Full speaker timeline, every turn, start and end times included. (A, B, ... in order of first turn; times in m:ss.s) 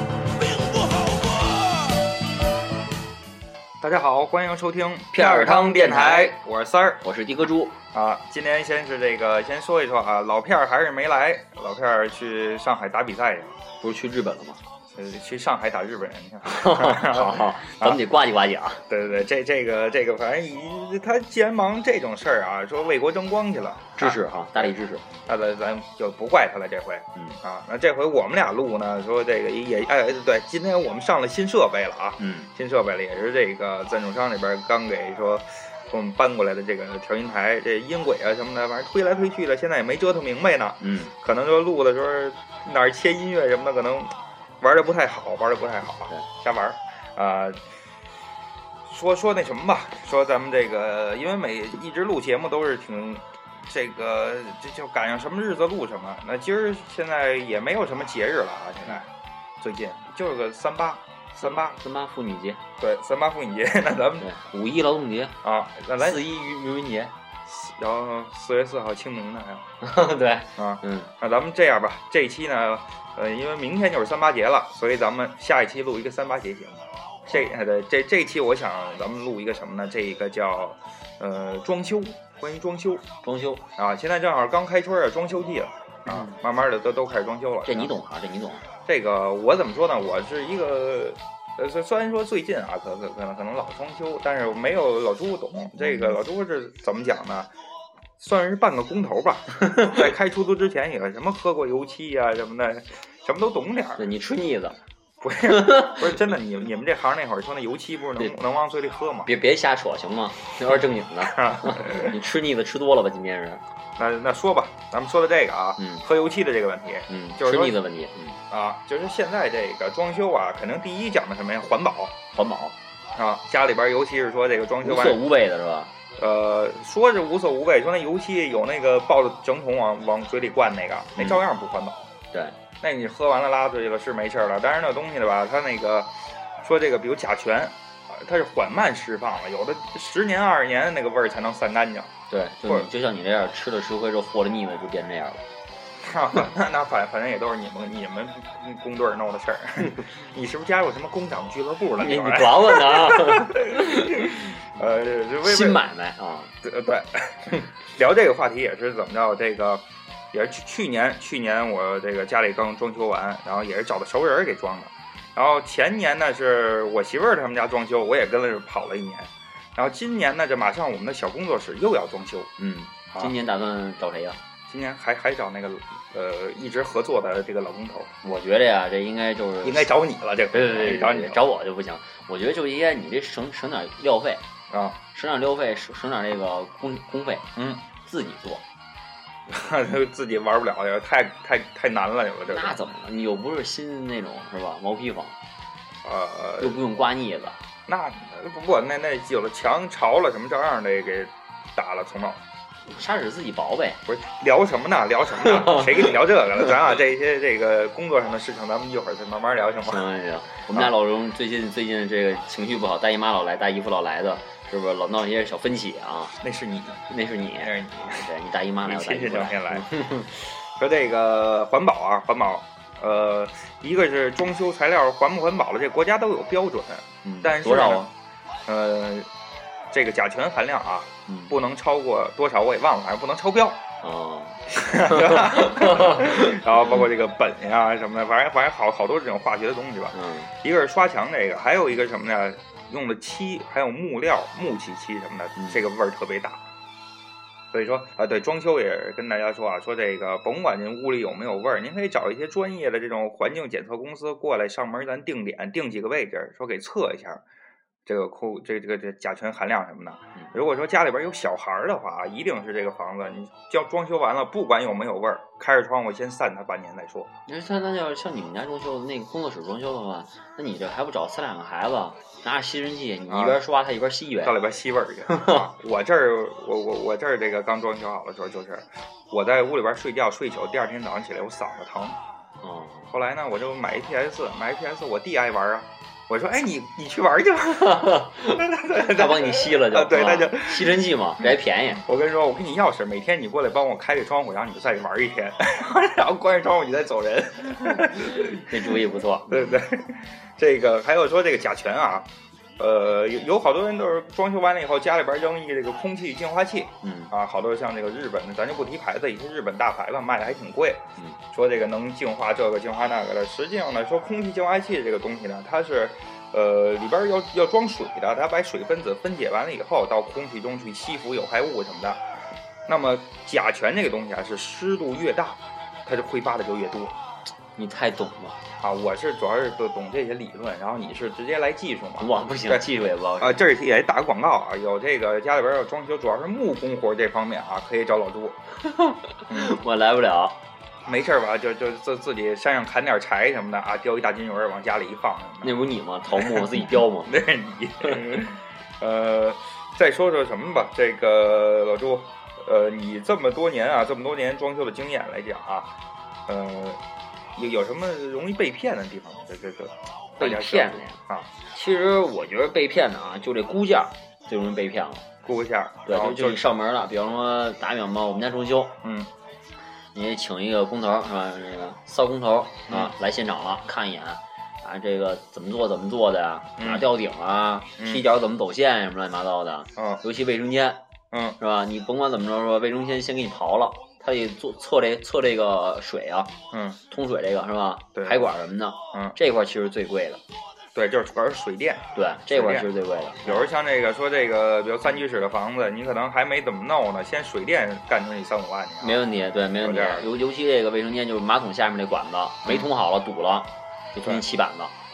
0:00.2-0:02.2 A
0:03.8-0:07.0 B
0:05.1-0:06.4 C
0:07.0-0:07.8 C
0:07.9-0:13.6 B
0:13.8-0:14.6 C
0:14.9-0:18.0 B
0:16.4-0:18.8 C
0:18.9-0:24.7 B
0:24.0-0:25.0 C
0:25.2-0:47.6 B
0:32.2-0:32.5 C
0:40.8-0:41.1 C
0:48.8-0:59.1 B
0:59.6-1:01.8 B
1:01.4-1:02.6 C
1:02.8-1:04.3 B
1:04.2-1:05.4 C
1:05.4-1:06.2 B
1:06.0-1:07.1 C
1:07.5-1:09.6 B
1:09.8-1:11.1 C
1:10.6-1:23.0 B
1:23.2-1:23.6 C
1:23.8-1:27.9 B
1:27.6-1:28.6 C
1:28.8-1:37.5 B
1:38.2-1:44.0 B
1:44.0-1:44.8 C
1:45.2-1:49.3 B
1:45.4-1:46.1 C
1:49.2-1:53.6 C
1:51.2-1:52.2 B
1:54.0-1:57.8 B
1:55.8-1:56.0 C
1:57.1-1:58.4 C
1:58.5-2:02.2 B
2:02.3-2:02.8 C
2:03.2-2:05.2 B
2:04.8-2:05.9 C
2:06.2-2:12.1 B
2:12.8-2:22.9 B
2:22.3-2:25.4 C
2:26.0-2:35.8 B
2:32.0-2:34.3 C
2:35.4-2:36.5 C
2:36.6-2:52.5 B
2:52.6-2:54.4 C
2:54.7-2:58.1 B
2:58.2-2:59.9 C
2:59.6-3:01.4 B
3:00.5-3:04.4 C
3:04.7-3:05.0 B
3:05.1-3:07.5 C
3:07.6-3:07.8 B
3:08.0-3:08.6 C
3:09.5-3:12.8 B
3:12.5-3:15.4 C
3:16.0-3:16.8 B
3:16.6-3:17.6 C
3:17.9-3:22.4 B
3:22.9-3:24.0 C
3:24.0-3:30.1 B
3:29.8-3:36.4 C
3:36.4-3:37.0 B
3:37.1-3:40.3 C
3:37.6-3:38.3 B
3:38.8-3:39.9 B
3:40.7-3:48.1 B
3:47.2-3:48.1 C
3:48.7-3:49.3 B
3:49.9-3:53.8 B
3:51.3-3:51.5 C
3:54.0-3:56.6 C
3:54.7-4:06.6 B
4:00.1-4:00.5 C
4:05.6-4:05.8 C
4:07.7-4:17.4 B
4:18.0-4:27.3 B
4:27.5-4:34.6 C
4:33.3-4:33.6 B
4:34.4-4:42.2 B
4:35.3-4:35.6 C
4:42.6-4:43.1 C
4:43.1-5:22.2 B
4:47.7-4:52.0 C
4:58.2-4:59.8 C
5:07.0-5:07.3 C
5:22.9-5:27.1 B
5:27.8-5:28.6 C
5:28.8-5:32.9 B
5:32.2-5:33.6 C
5:33.4-5:38.6 B
5:38.8-5:40.6 C
5:39.5-5:39.8 B
5:41.0-5:45.8 B
5:45.6-5:47.4 C
5:46.4-5:46.7 B
5:47.2-5:55.9 B
5:56.5-5:57.0 B
5:57.6-6:01.5 B
6:00.4-6:01.2 C
6:01.7-6:05.2 C
6:05.4-6:06.6 B
6:06.1-6:09.0 C
6:09.0-6:09.3 B
6:10.1-6:21.0 C
6:16.8-6:17.1 B
6:18.0-6:18.2 B
6:20.0-6:20.2 B
6:21.3-6:21.6 B
6:21.6-6:26.5 C
6:26.7-6:27.0 B
6:27.1-6:30.4 C
6:28.1-6:28.5 B
6:30.9-6:32.9 B
6:32.1-6:33.7 C
6:33.4-6:39.2 B
6:39.0-6:44.9 C
6:39.8-6:40.2 B